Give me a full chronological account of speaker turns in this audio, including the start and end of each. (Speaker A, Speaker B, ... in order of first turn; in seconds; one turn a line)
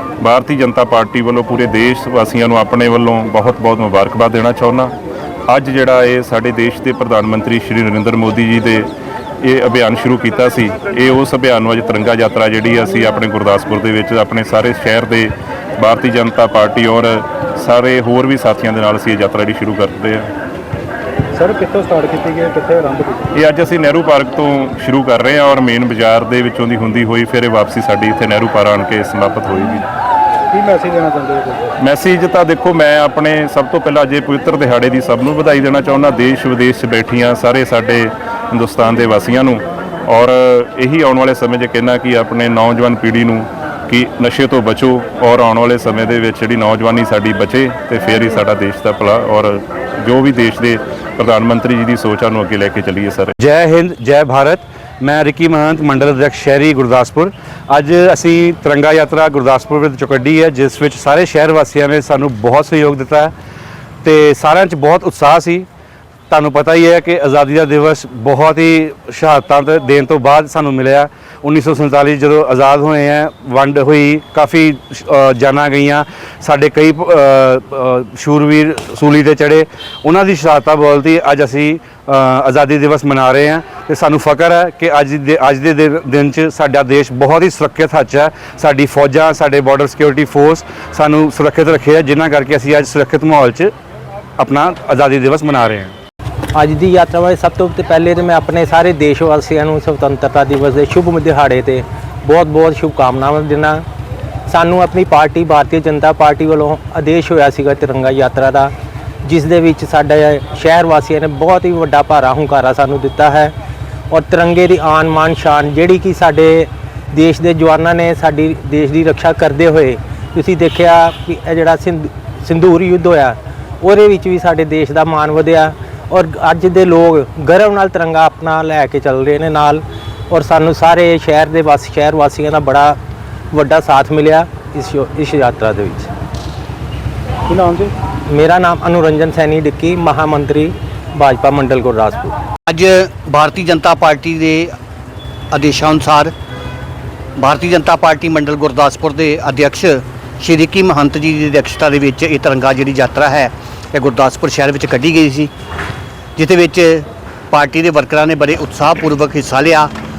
Speaker A: 0.2-4.9
Speaker A: 5.5-8.9
Speaker A: 9.4-20.3
Speaker B: 21.4-23.3
Speaker A: 23.4-29.9
Speaker B: 30.5-31.6
Speaker A: 31.8-53.3
Speaker C: 53.4-63.3
Speaker C: 64.0-65.7
Speaker C: 66.3-93.7
Speaker C: 94.4-96.0
Speaker D: 96.5-103.8
Speaker D: 104.5-108.7
Speaker D: 109.2-113.5
Speaker D: 114.1-133.0
Speaker D: 133.5-136.1
Speaker B: 137.5-137.9
Speaker D: 138.3-142.3
Speaker E: 142.7-144.7
Speaker E: 145.5-146.3
Speaker E: 147.4-155.5
Speaker E: 156.4-159.9